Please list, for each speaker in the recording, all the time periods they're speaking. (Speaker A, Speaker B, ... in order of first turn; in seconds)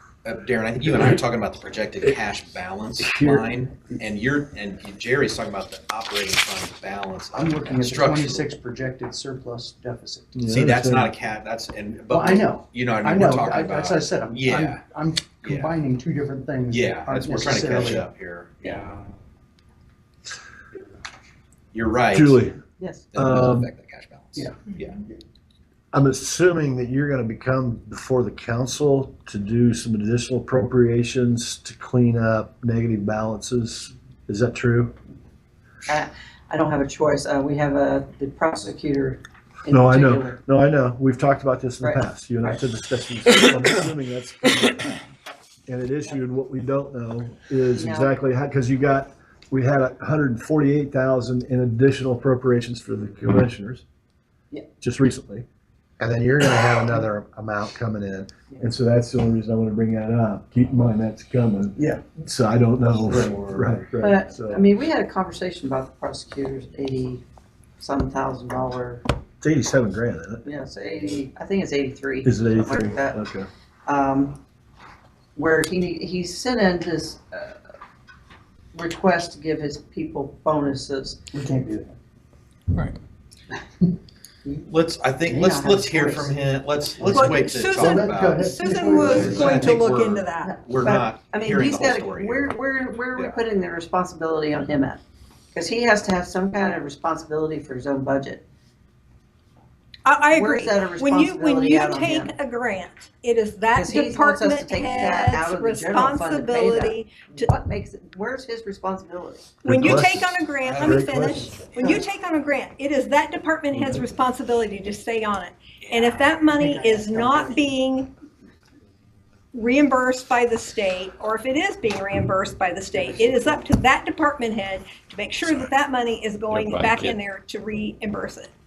Speaker A: 0.2-8.5, 10.4-15.8, 16.7-18.9, 21.7-22.4, 23.1-25.0, 63.0-63.7, 84.7-92.5, 110.6-111.1, 115.8-116.3
Speaker B: 3.0-3.5, 10.3-11.1, 22.1-22.6, 23.1-23.7, 25.9-34.9, 39.7-45.0, 45.7-53.8, 54.8-55.5, 56.0-64.7, 69.4-70.5, 72.2-73.5, 109.6-111.5
Speaker C: 7.3-10.3, 12.1-18.1, 24.3-24.6, 61.8-62.0, 81.3-81.9, 87.8-89.8
Speaker D: 22.8-23.1, 35.9-40.4, 41.8-42.6, 47.7-48.1, 64.0-67.2, 67.8-69.0, 70.4-73.2, 73.8-74.4, 75.3-77.7, 78.7-81.2, 85.2-86.4, 90.4-95.0, 95.5-98.4, 100.3-102.4, 103.7-109.5, 111.8-112.1, 116.6-117.6
Speaker E: 87.0-90.6, 100.0-107.5, 109.6-118.1, 119.5-128.5